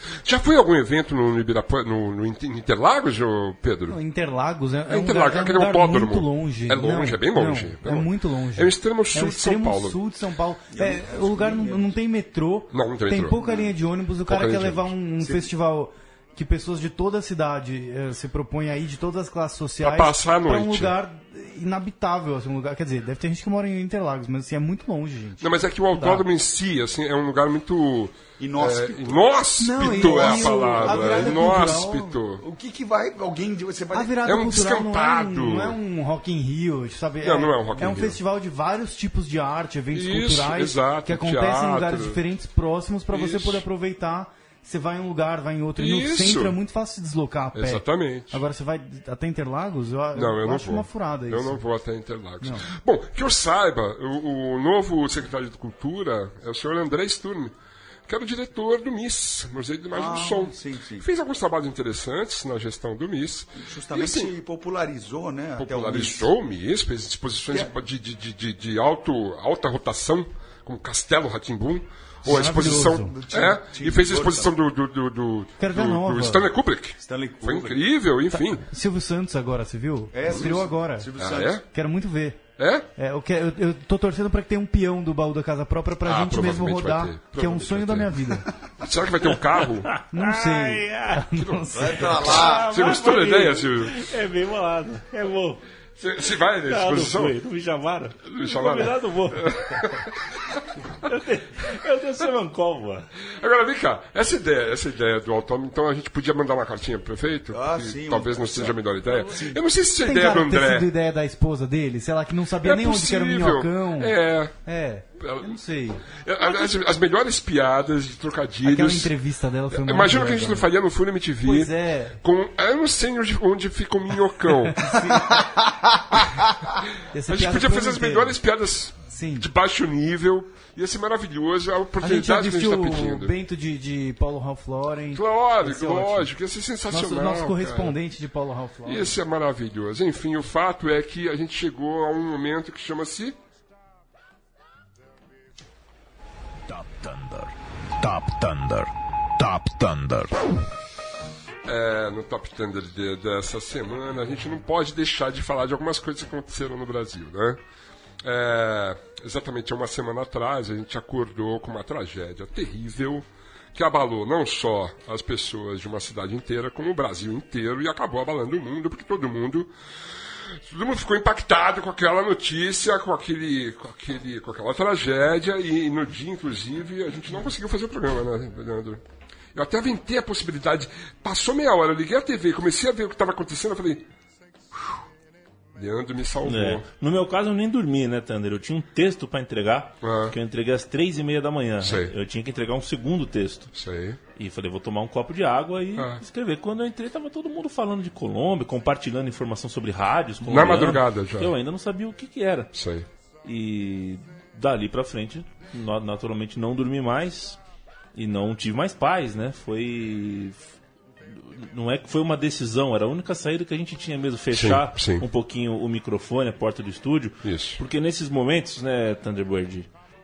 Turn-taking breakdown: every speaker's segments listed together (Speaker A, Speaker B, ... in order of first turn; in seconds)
Speaker A: 0.2-4.0, 4.9-10.0, 12.7-13.4, 14.3-14.9, 19.8-20.9, 25.4-32.4, 34.2-35.8, 37.2-38.2, 39.9-42.2, 43.1-43.6, 45.8-46.5, 47.5-48.4, 50.1-57.5, 58.1-64.3, 65.6-78.6, 81.2-81.6, 82.6-82.9, 86.0-88.1, 88.8-89.9, 91.4-91.6, 92.2-94.0, 96.0-97.4, 98.3-100.5, 103.3-110.9, 112.6-114.5, 115.2-119.1, 119.7-124.9, 127.3-133.3, 135.1-138.0, 138.8-143.4, 151.6-157.6, 158.2-169.7, 170.5-179.0, 179.5-184.1, 185.7-186.8, 190.0-190.3, 191.8-192.1, 193.7-194.2, 195.9-196.2, 200.4-201.5, 202.7-203.1, 214.5-215.2, 217.4-217.8
Speaker B: 3.9-26.2, 29.6-32.2, 33.9-51.6, 52.4-52.7, 72.2-73.1, 75.6-76.5, 78.3-81.1, 81.6-82.4, 83.0-88.5, 90.1-92.4, 110.0-116.0, 118.6-120.7, 121.4-122.2, 124.7-125.4, 127.1-128.4, 129.1-129.5, 132.0-136.3, 136.9-139.2
Speaker C: 10.7-11.9, 15.2-15.5, 28.4-31.7, 32.4-34.2, 59.9-61.0, 63.6-66.3, 72.3-74.5, 77.0-77.8, 80.1-81.6, 91.7-92.9, 107.5-109.6, 125.2-126.7
Speaker D: 89.9-91.3, 92.2-95.6, 96.7-100.0, 101.0-103.1, 186.4-193.7, 194.3-202.7, 203.4-207.6, 208.1-210.6, 211.3-219.9
Speaker E: 146.7-150.3